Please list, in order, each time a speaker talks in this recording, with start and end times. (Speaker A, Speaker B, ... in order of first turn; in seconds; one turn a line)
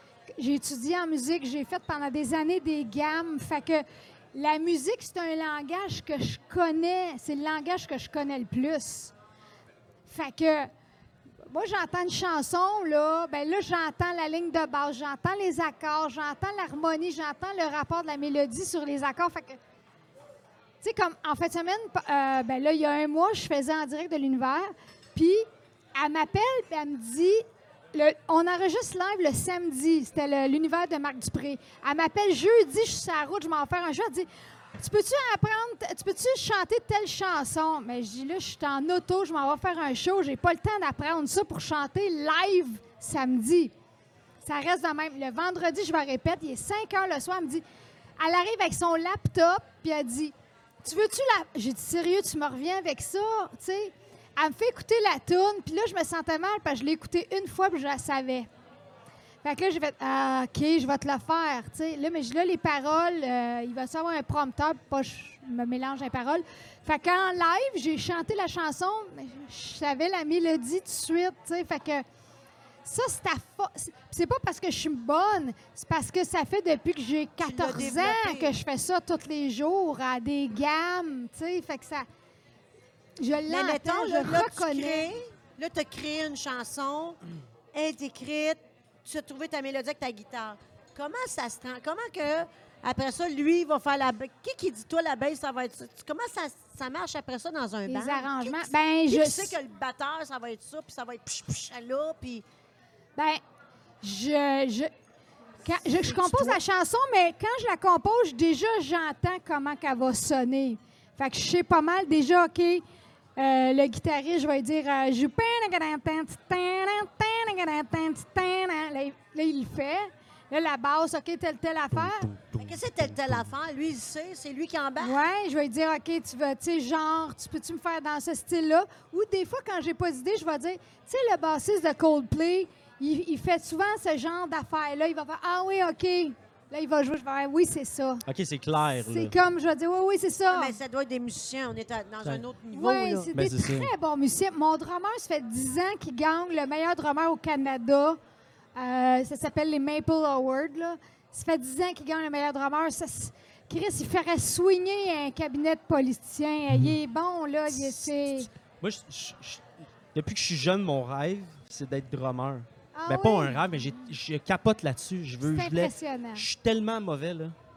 Speaker A: 0.3-9.1
Speaker A: 10.1-10.7
Speaker A: 11.5-19.6
Speaker A: 20.8-43.7
Speaker A: 44.4-47.6
Speaker A: 48.2-58.5
Speaker A: 59.4-72.0
Speaker A: 72.8-82.0
Speaker B: 77.4-78.5
Speaker A: 83.2-85.1
Speaker B: 83.5-87.2
Speaker B: 87.7-102.4
Speaker A: 97.9-99.6
Speaker A: 104.0-104.9
Speaker A: 105.6-112.8
Speaker B: 105.8-106.6
Speaker A: 113.4-122.3
Speaker C: 121.9-123.5
Speaker B: 122.6-125.2
Speaker A: 125.0-138.2
Speaker C: 138.2-139.3
Speaker A: 139.0-140.8
Speaker B: 140.5-143.3
Speaker A: 142.7-148.2
Speaker C: 143.3-143.9
Speaker A: 148.8-158.5
Speaker C: 158.8-167.5
Speaker A: 162.9-163.9
Speaker A: 165.4-166.4